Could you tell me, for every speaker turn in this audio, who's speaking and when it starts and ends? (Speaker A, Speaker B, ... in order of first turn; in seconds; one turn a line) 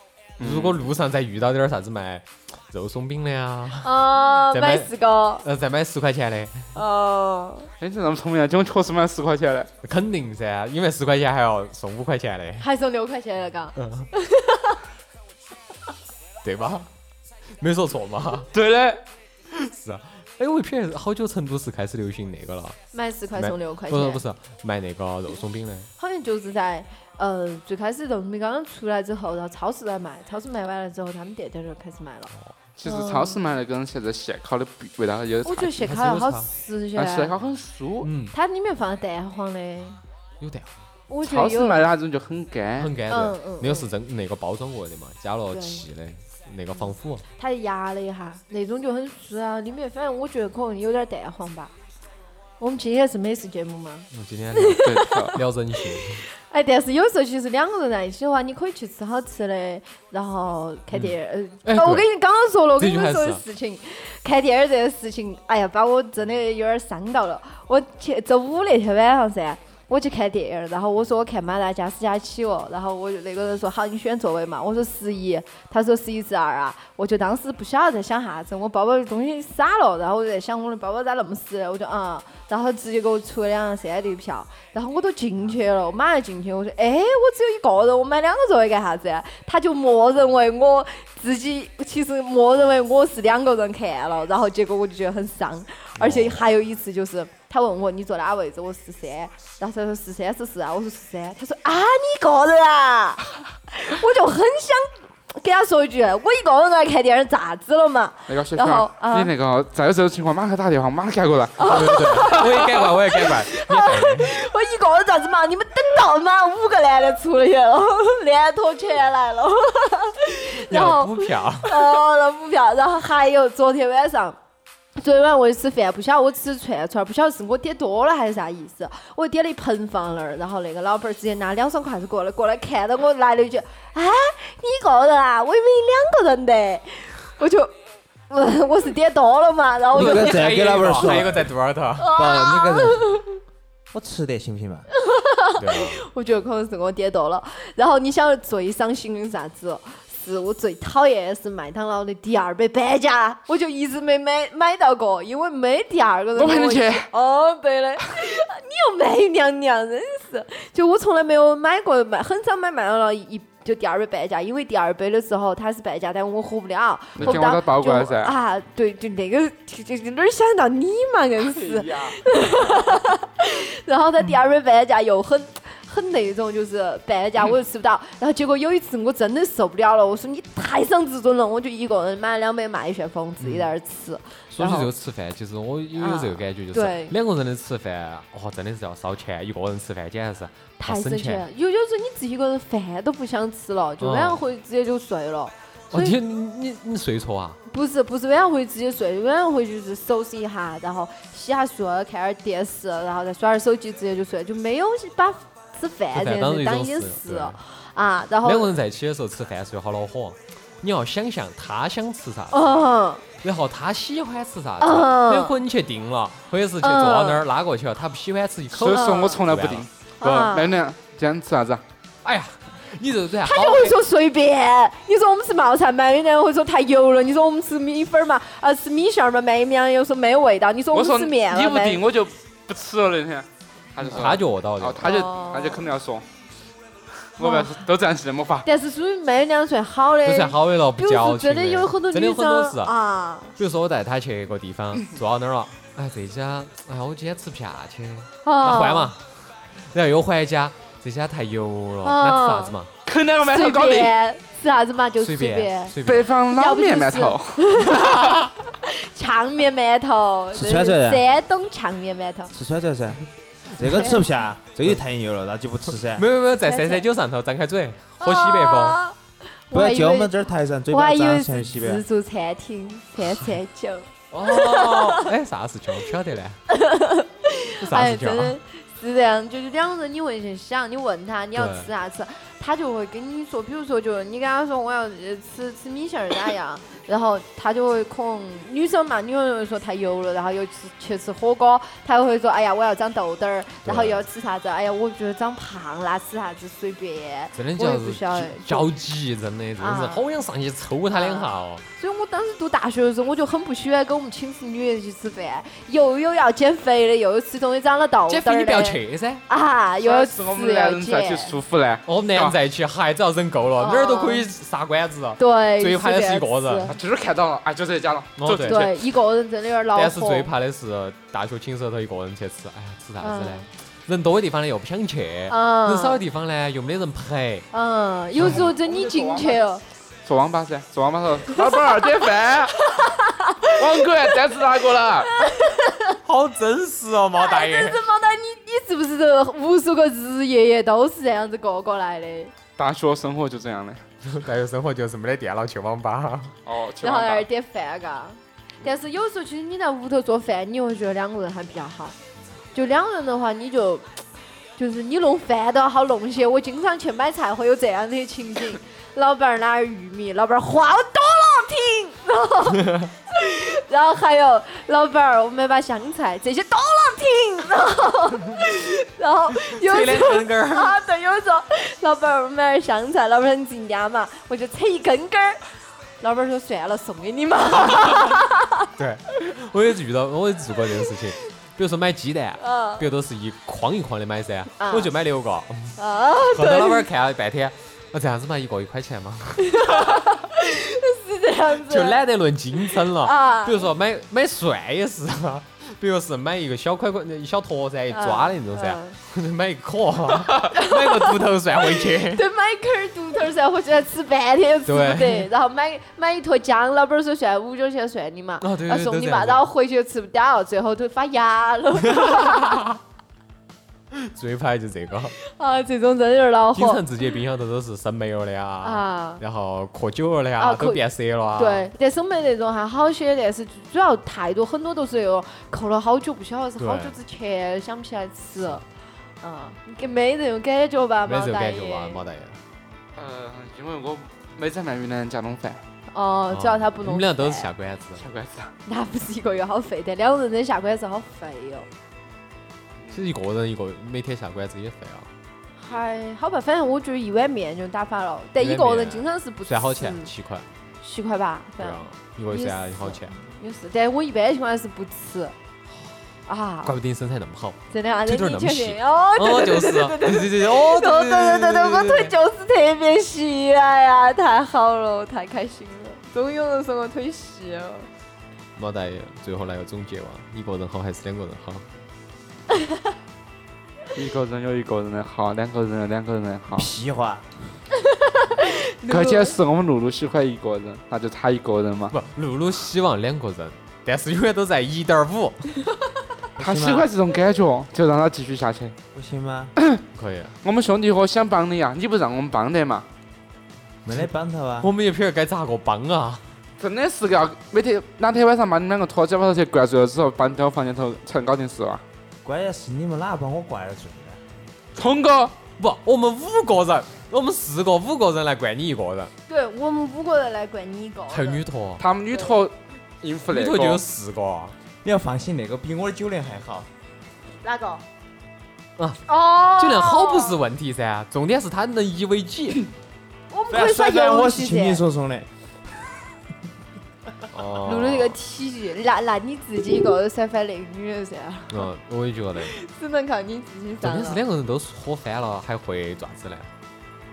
Speaker A: 0.4-0.8
Speaker B: 0.4-4.9
Speaker C: 3.8-5.4
Speaker B: 5.4-6.7
Speaker C: 6.7-7.7
Speaker A: 7.8-9.7
Speaker B: 9.8-12.7
Speaker C: 12.6-14.8
Speaker B: 13.8-14.1
Speaker B: 16.4-16.9
Speaker B: 17.6-18.5
Speaker A: 18.5-19.0
Speaker B: 19.5-22.8
Speaker C: 22.9-24.2
Speaker B: 23.4-25.9
Speaker C: 26.0-32.3
Speaker A: 32.8-35.7
Speaker C: 32.8-33.4
Speaker C: 35.4-37.3
Speaker B: 35.7-36.5
Speaker A: 36.9-38.1
Speaker B: 38.0-38.3
Speaker C: 38.3-40.0
Speaker B: 40.4-40.7
Speaker C: 41.1-41.9
Speaker A: 41.2-42.9
Speaker B: 42.8-47.2
Speaker C: 43.1-43.9
Speaker C: 45.5-45.8
Speaker C: 46.7-51.7
Speaker C: 52.6-55.4
Speaker B: 54.1-56.2
Speaker A: 54.8-55.4
Speaker C: 56.0-109.3
Speaker B: 61.6-62.1
Speaker B: 62.8-63.4
Speaker B: 96.0-96.5
Speaker A: 108.3-112.6
Speaker C: 111.6-124.4
Speaker B: 111.6-114.3
Speaker B: 120.6-122.0
Speaker C: 125.0-137.7
Speaker C: 138.3-141.1
Speaker D: 139.9-141.5
Speaker B: 139.9-142.1
Speaker C: 142.0-143.4
Speaker D: 142.1-143.1
Speaker D: 143.9-144.8
Speaker C: 144.9-184.9
Speaker B: 145.6-146.0
Speaker A: 156.3-157.1
Speaker A: 167.2-168.3
Speaker A: 171.5-172.2
Speaker B: 183.4-183.7
Speaker B: 184.5-191.4
Speaker C: 185.9-187.1
Speaker C: 190.8-196.2
Speaker B: 194.0-194.4
Speaker B: 195.9-197.6
Speaker C: 197.7-208.7
Speaker B: 206.1-207.6
Speaker B: 208.4-212.8
Speaker C: 212.5-213.2
Speaker B: 213.4-219.8
Speaker C: 214.8-215.5
Speaker C: 216.8-217.4
Speaker A: 218.7-221.8
Speaker C: 218.8-219.4
Speaker C: 220.2-220.7
Speaker B: 222.2-224.0
Speaker C: 223.4-232.0
Speaker A: 230.9-236.2
Speaker B: 234.0-235.1
Speaker C: 235.0-235.9
Speaker A: 237.3-238.7
Speaker C: 237.4-237.8
Speaker C: 238.6-243.5
Speaker B: 240.2-242.9
Speaker B: 243.6-249.2
Speaker C: 248.4-249.1
Speaker B: 249.7-252.9
Speaker C: 252.0-252.7
Speaker A: 253.1-254.1
Speaker C: 253.4-255.9
Speaker B: 255.2-256.3
Speaker A: 256.0-258.2
Speaker C: 256.5-262.5
Speaker D: 260.5-261.2
Speaker D: 262.5-266.2
Speaker C: 263.8-264.2
Speaker B: 266.1-269.0
Speaker C: 266.6-267.0
Speaker C: 268.2-269.2
Speaker C: 269.7-270.3
Speaker D: 269.7-272.0
Speaker C: 270.9-275.3
Speaker B: 274.3-276.6
Speaker C: 276.7-298.9
Speaker B: 277.8-278.6
Speaker B: 281.5-281.9
Speaker B: 293.9-294.2
Speaker B: 297.6-301.8
Speaker C: 299.8-300.3
Speaker C: 301.1-311.6
Speaker B: 308.3-309.4
Speaker A: 310.0-312.6
Speaker B: 312.1-316.9
Speaker C: 313.8-314.5
Speaker C: 315.4-316.9
Speaker A: 316.9-318.9
Speaker B: 318.4-318.9
Speaker C: 318.6-320.5
Speaker B: 319.9-327.7
Speaker C: 323.2-323.7
Speaker C: 325.5-326.2
Speaker C: 327.7-329.8
Speaker B: 328.4-328.7
Speaker A: 328.4-329.6
Speaker A: 330.2-332.8
Speaker C: 331.5-332.0
Speaker C: 332.8-334.3
Speaker A: 333.8-335.3
Speaker C: 335.3-336.2
Speaker B: 336.2-338.0
Speaker C: 337.4-342.5
Speaker A: 342.8-344.0
Speaker B: 344.2-346.6
Speaker A: 346.6-347.5
Speaker C: 347.0-352.1
Speaker C: 352.7-354.1
Speaker C: 354.8-375.6
Speaker B: 369.6-370.9
Speaker C: 376.2-378.9
Speaker B: 379.0-386.0
Speaker C: 382.6-383.1
Speaker C: 384.8-385.1
Speaker C: 385.9-387.1
Speaker B: 386.5-390.1
Speaker C: 389.6-392.2
Speaker B: 391.8-402.4
Speaker C: 392.9-393.9
Speaker C: 398.1-399.1
Speaker C: 400.5-412.8
Speaker B: 404.9-405.5
Speaker B: 408.6-409.7
Speaker B: 412.1-412.9
Speaker B: 414.1-415.3
Speaker C: 415.4-417.0
Speaker B: 416.7-421.8
Speaker C: 418.8-419.4
Speaker C: 420.6-421.0
Speaker C: 421.6-428.8
Speaker B: 426.8-427.1
Speaker C: 429.4-432.2
Speaker B: 431.2-432.6
Speaker A: 433.1-435.8
Speaker C: 436.1-437.7
Speaker B: 436.5-438.2
Speaker A: 438.2-438.7
Speaker C: 438.9-441.9
Speaker B: 443.1-445.3
Speaker C: 445.8-450.3
Speaker B: 448.6-450.7
Speaker C: 451.0-455.5
Speaker B: 451.8-453.3
Speaker C: 456.5-456.9
Speaker B: 456.8-462.3
Speaker C: 457.9-468.1
Speaker B: 468.8-471.8
Speaker A: 474.1-476.9
Speaker D: 476.7-477.5
Speaker C: 478.0-479.6
Speaker A: 479.1-482.1
Speaker B: 482.1-485.7
Speaker D: 486.6-487.1
Speaker A: 486.6-488.9
Speaker D: 489.1-489.7
Speaker B: 490.1-490.5
Speaker A: 490.6-493.1
Speaker D: 494.0-494.9
Speaker B: 494.8-496.4
Speaker A: 496.8-502.0
Speaker D: 502.4-504.4
Speaker A: 504.9-505.5
Speaker B: 505.8-509.3
Speaker C: 509.5-511.6
Speaker B: 511.3-512.0
Speaker A: 512.0-514.0
Speaker B: 513.5-514.7
Speaker D: 515.0-516.9
Speaker C: 517.6-518.0
Speaker B: 519.0-522.9
Speaker C: 519.3-520.6
Speaker C: 523.5-525.0
Speaker D: 523.7-525.5
Speaker B: 527.5-528.4
Speaker C: 527.8-531.9
Speaker B: 531.7-532.7
Speaker C: 532.6-534.4
Speaker B: 534.0-536.7